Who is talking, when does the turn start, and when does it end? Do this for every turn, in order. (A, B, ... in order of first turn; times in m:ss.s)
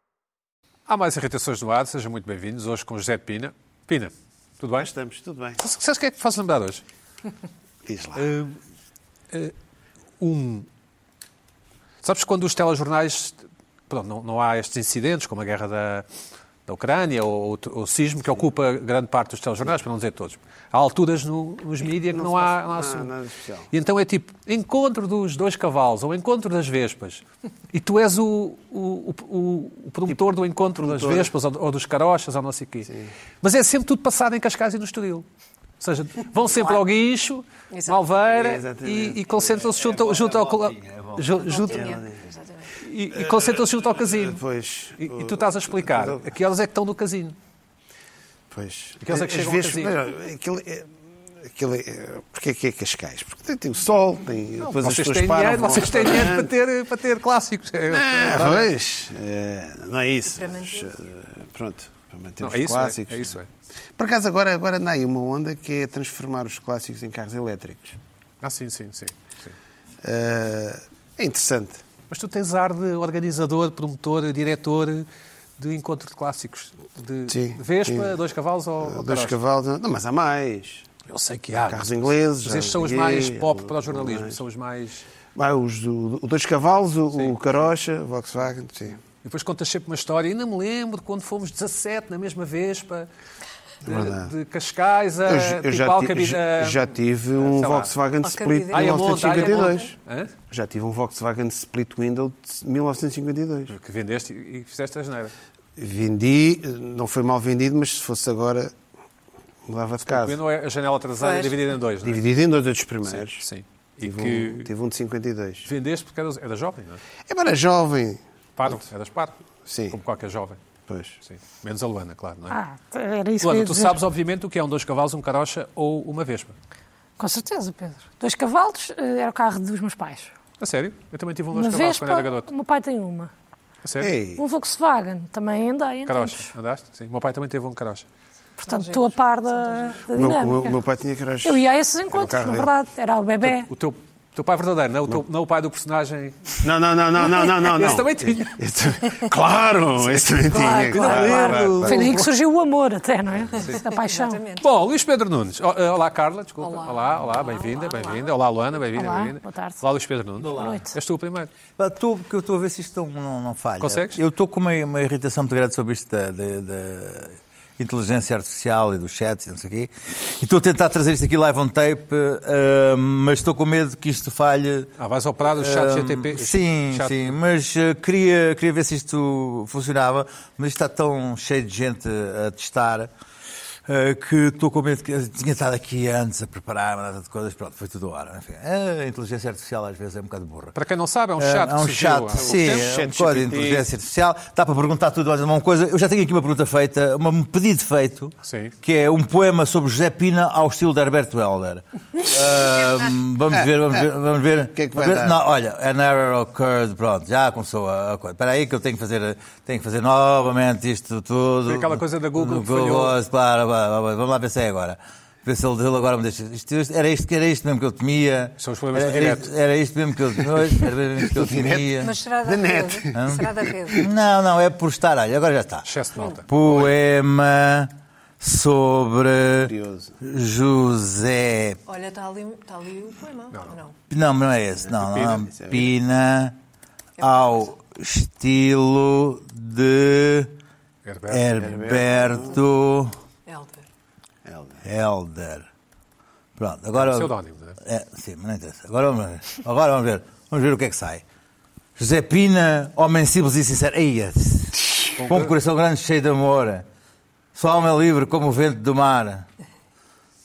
0:00.9-0:04.9 A
0:04.8-0:05.6 B
0:05.6-0:06.8 A
0:07.8-0:08.3 B
0:08.2-0:08.6 A
0:10.2-0:10.7 A
0:12.0-0:16.0 A
0:16.7-0:23.1 A
0:22.1-0:23.7 B
0:23.7-0:32.9 A
0:30.8-0:31.3 B
0:32.9-0:33.1 B
0:33.4-0:35.3 A
0:35.8-0:41.9 A
0:37.7-0:38.0 C
0:38.2-0:40.1 B
0:39.9-0:41.5 D
0:41.5-0:42.7 C
0:41.7-0:42.2 B
0:42.8-0:44.4 A
0:43.2-0:46.2 B
0:45.0-0:47.4 A
0:48.5-0:56.5 B
0:49.0-0:50.0 A
0:54.6-0:58.7 A
0:57.9-1:03.3 B
1:00.3-1:00.9 C
1:02.4-1:03.5 A
1:04.0-1:08.0 B
1:08.4-1:09.6 A
1:10.0-1:11.8 B
1:12.1-1:15.1 A
1:15.6-1:19.4 A
1:17.3-1:18.1 B
1:18.8-1:20.9 B
1:21.1-1:25.1 A
1:21.6-1:24.4 B
1:25.3-1:29.0 B
1:29.2-1:33.1 A
1:33.8-1:34.3 B
1:33.8-1:37.9 A
1:35.2-1:40.0 B
1:38.2-1:39.9 C
1:38.7-1:40.3 A
1:40.5-1:43.7 B
1:43.7-1:45.3 A
1:45.8-1:48.8 B
1:49.7-1:50.4 B
1:50.1-1:52.2 A
1:51.3-1:51.5 C
1:52.0-1:53.4 B
1:53.1-1:54.7 A
1:54.0-1:55.7 B
1:55.7-1:57.0 A
1:57.3-1:58.2 B
1:58.6-1:59.3 A
1:59.7-2:00.0 B
1:59.9-2:00.6 A
2:00.9-2:01.2 B
2:01.2-2:02.6 A
2:02.5-2:04.0 E
2:03.4-2:06.6 A
2:07.2-2:10.3 E
2:10.6-2:12.5 A
2:11.5-2:13.3 E
2:13.8-2:14.1 A
2:14.0-2:14.4 B
2:14.4-2:16.5 E
2:16.1-2:18.1 A
2:18.6-2:20.0 C
2:18.6-2:20.7 E
2:20.2-2:22.7 B
2:21.4-2:23.7 E
2:23.4-2:26.7 A
2:26.6-2:32.1 B
2:27.2-2:28.6 A
2:30.5-2:34.4 E
2:30.9-2:31.4 A
2:30.9-2:32.3 D
2:33.5-2:33.8 A
2:33.7-2:34.7 C
2:34.6-2:41.5 A
2:36.6-2:38.3 C
2:38.9-2:39.8 E
2:40.4-2:40.8 D
2:40.6-2:40.9 E
2:41.8-2:54.9 D
2:43.8-2:44.2 A
2:55.0-2:57.4 A
2:55.4-3:03.1 D
3:03.8-3:10.8 D
3:10.8-3:12.9 A
3:11.4-3:42.1 D
3:12.4-3:13.8 B
3:18.4-3:18.7 A
3:24.8-3:25.4 B
3:31.7-3:33.2 A
3:38.6-3:39.5 A
3:41.2-3:44.1 B
3:42.0-3:44.1 C
3:43.1-3:51.8 D
3:45.8-3:46.5 A
3:49.6-3:50.1 B
3:51.8-3:53.9 C
3:54.1-3:56.6 D
3:55.0-3:55.9 B
3:57.2-4:00.6 D
4:01.0-4:01.5 A
4:01.3-4:03.2 D
4:01.6-4:02.6 B
4:03.5-4:03.9 C
4:04.5-4:04.8 B
4:04.8-4:05.7 D
4:06.6-4:11.2 D
4:07.0-4:07.8 A
4:12.0-4:16.9 D
4:15.2-4:15.5 A
4:17.6-4:19.4 D